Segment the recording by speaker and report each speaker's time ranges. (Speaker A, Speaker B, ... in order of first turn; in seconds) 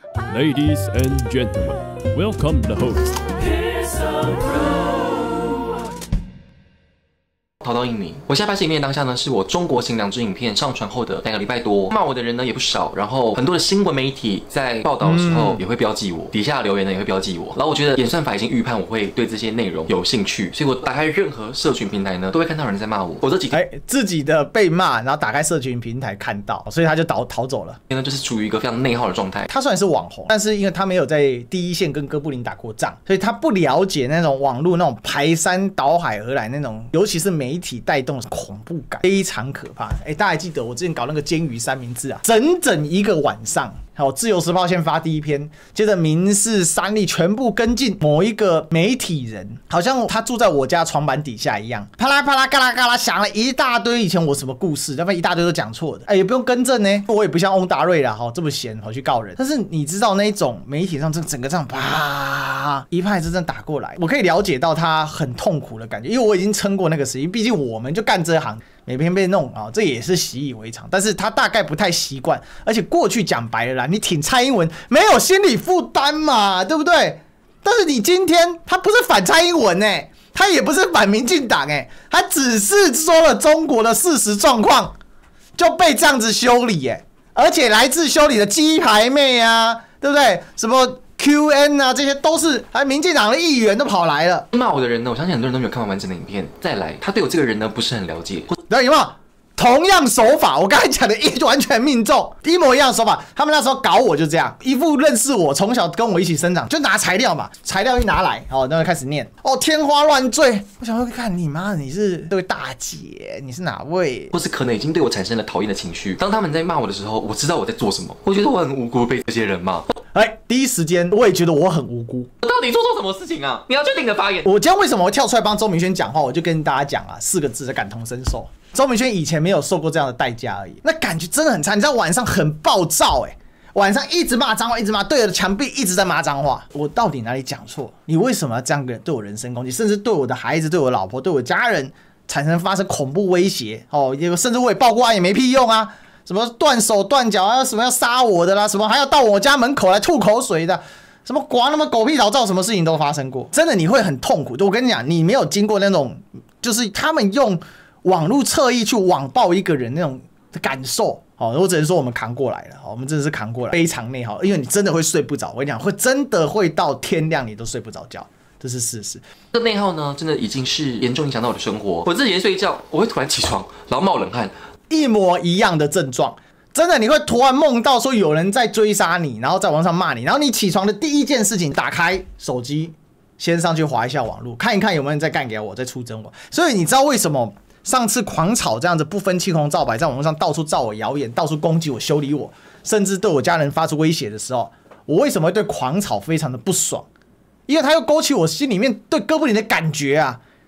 Speaker A: 0.3-4.3
Speaker B: 7.6-23.6, 27.9-29.5, 94.5-98.5, 114.3-119.9, 122.4-124.5, 169.5-174.5
Speaker C: 15.0-15.6, 23.5-27.8, 29.5-84.9, 85.6-94.5, 98.7-114.3, 120.1-122.3, 124.4-169.2, 174.9-197.1, 197.7-200.4